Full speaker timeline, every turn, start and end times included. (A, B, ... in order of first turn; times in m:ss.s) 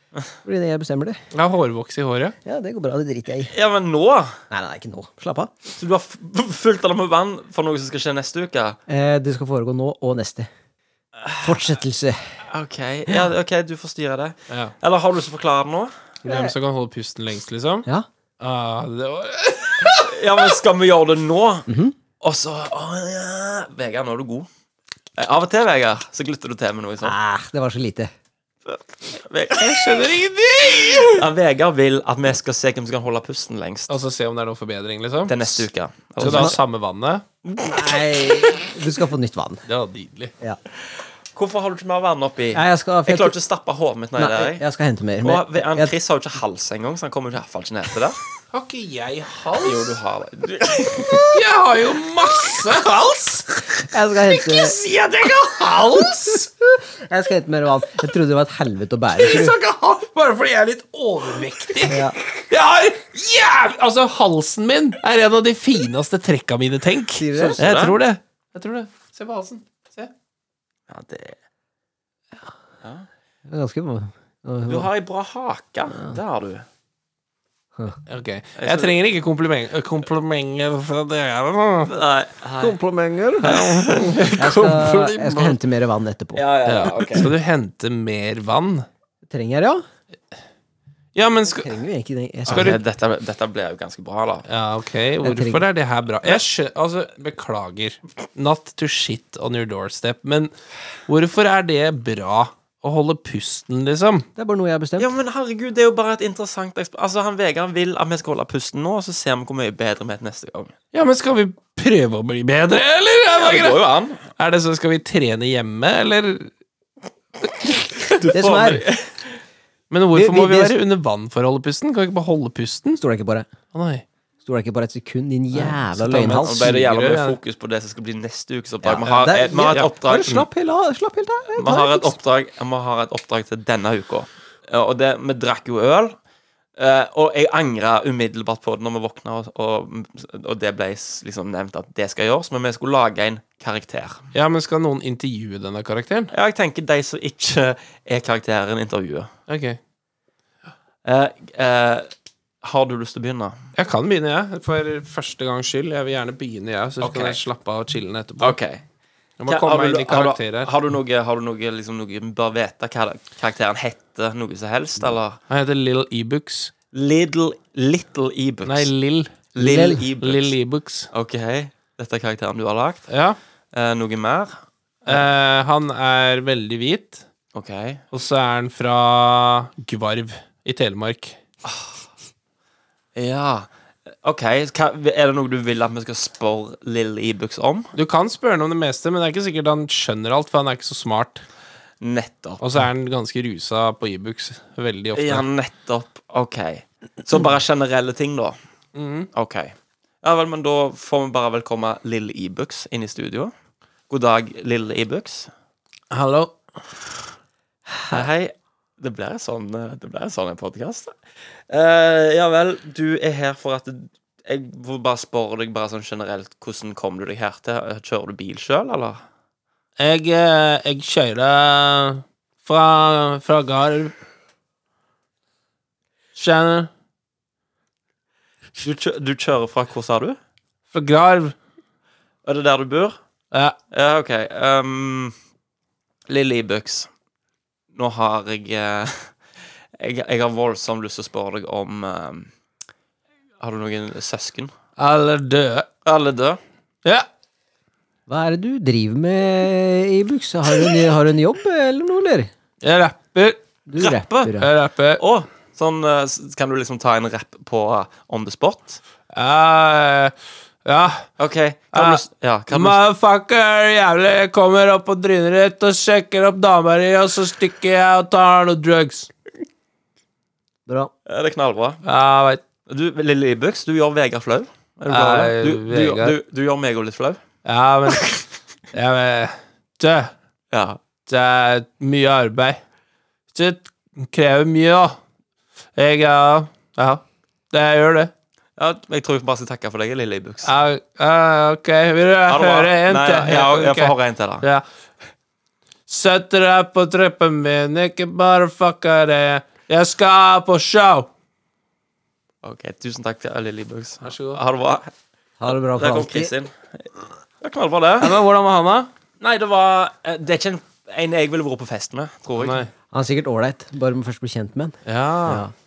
0:00.4-0:01.2 A
0:01.3-0:02.4 B
0:02.4-0:03.5 A
0:03.4-0:04.4 C
0:04.5-0:05.5 A
0:05.8-0:08.8 C
0:08.9-0:10.5 A
0:11.2-0:11.6 C
0:11.4-0:12.4 A
0:12.5-0:15.9 C
0:16.2-0:16.6 A
0:16.2-0:17.9 B
0:18.4-0:20.6 B
0:20.0-0:21.7 C
0:21.7-0:22.0 A
0:22.2-0:24.5 C
0:25.2-0:27.1 C
0:27.0-0:28.1 A
0:28.6-0:29.9 C
0:29.6-0:31.3 B
0:31.1-0:34.0 C
0:33.9-0:35.7 B
0:35.3-0:36.6 C
0:36.2-0:37.2 B
0:36.2-0:36.6 A
0:37.4-0:38.6 C
0:37.6-0:39.6 A
0:39.7-0:40.3 B
0:41.4-0:44.6 C
0:42.5-0:43.4 A
0:44.2-0:45.9 A
0:45.2-0:48.2 C
0:48.5-0:50.0 B
0:49.6-0:51.4 C
0:51.2-0:56.5 B
0:53.9-0:54.8 A
0:56.9-0:59.6 A
0:59.2-1:10.1 B
1:01.9-1:02.2 A
1:07.2-1:07.6 A
1:07.3-1:08.0 C
1:10.9-1:11.4 C
1:13.5-1:14.9 A
1:14.7-1:16.6 C
1:18.1-1:21.9 B
1:18.6-1:19.0 C
1:21.9-1:22.8 C
1:22.6-1:23.6 A
1:23.4-1:25.6 B
1:23.4-1:24.9 C
1:24.4-1:26.4 A
1:26.4-1:27.3 C
1:26.6-1:28.9 B
1:29.3-1:29.8 A
1:31.2-1:31.7 B
1:31.5-1:32.8 A
1:32.5-1:34.5 C
1:32.5-1:32.8 B
1:34.5-1:40.5 B
1:35.2-1:35.6 A
1:41.1-1:44.3 B
1:44.4-1:45.1 A
1:45.0-1:50.7 C
1:50.9-1:53.8 B
1:53.4-1:54.2 C
1:54.4-1:56.5 B
1:58.0-1:59.3 C
1:58.3-1:58.9 A
1:59.9-2:03.0 B
2:00.1-2:00.8 A
2:03.0-2:03.5 A
2:03.7-2:04.0 B
2:04.4-2:06.8 A
2:05.5-2:07.4 B
2:06.1-2:10.5 C
2:08.8-2:12.2 A
2:09.1-2:09.9 B
2:11.6-2:16.2 C
2:16.8-2:24.3 C
2:24.3-2:26.3 B
2:26.3-2:29.3 C
2:29.5-2:29.8 B
2:31.0-2:32.1 C
2:32.6-2:33.6 C
2:33.8-2:38.6 B
2:37.0-2:37.4 C
2:38.4-2:38.8 C
2:39.4-2:40.7 B
2:39.5-2:45.4 C
2:45.5-2:46.7 B
2:46.9-2:48.9 C
2:48.6-2:49.5 B
2:49.6-2:50.6 C
2:49.6-2:50.0 A
2:50.1-2:51.1 B
2:51.1-2:53.1 C
2:53.1-2:53.4 B
2:53.7-2:54.5 C
2:55.1-2:57.2 B
2:57.5-2:58.0 C
2:58.1-3:01.4 B
3:01.6-3:02.0 C
3:03.2-3:03.7 C
3:04.2-3:07.9 C
3:07.9-3:11.4 B
3:12.0-3:12.6 C
3:12.6-3:15.5 B
3:15.2-3:18.6 C
3:19.0-3:19.3 B
3:19.3-3:23.5 C
3:24.1-3:25.5 C
3:26.1-3:27.1 B
3:28.1-3:31.1 C
3:31.7-3:39.2 C
3:40.0-3:44.2 B
3:46.4-3:46.9 B
3:48.8-3:50.4 C
3:50.9-3:51.6 B
3:52.4-3:53.2 C
3:53.9-3:55.3 C
3:56.3-3:57.1 C
3:58.0-3:59.4 C
4:00.0-4:02.5 C
4:03.6-4:04.7 C
4:05.0-4:05.9 B
4:06.0-4:06.6 C
4:08.3-4:12.5 A
4:12.8-4:13.6 B
4:13.9-4:14.7 A
4:14.0-4:19.0 C
4:14.6-4:15.2 B
4:19.3-4:21.3 B
4:21.4-4:23.0 C
4:21.9-4:29.3 B
4:31.3-4:32.0 C
4:32.0-4:32.6 B
4:32.9-4:37.4 C
4:35.1-4:36.4 B
4:37.6-4:38.3 B
4:38.1-4:38.4 C
4:38.9-4:40.3 B
4:40.7-4:41.0 C
4:41.3-4:42.8 B
4:43.5-4:45.2 B
4:46.0-4:48.3 B
4:48.8-4:50.7 C
4:50.6-4:54.8 B
4:52.5-4:54.7 C
4:56.1-5:01.3 B
5:02.6-5:05.1 C
5:04.2-5:04.6 B
5:05.6-5:06.5 A
5:05.9-5:08.4 C
5:08.2-5:09.1 B
5:09.4-5:12.9 C
5:12.6-5:12.9 B
5:13.1-5:15.7 A
5:15.1-5:15.7 B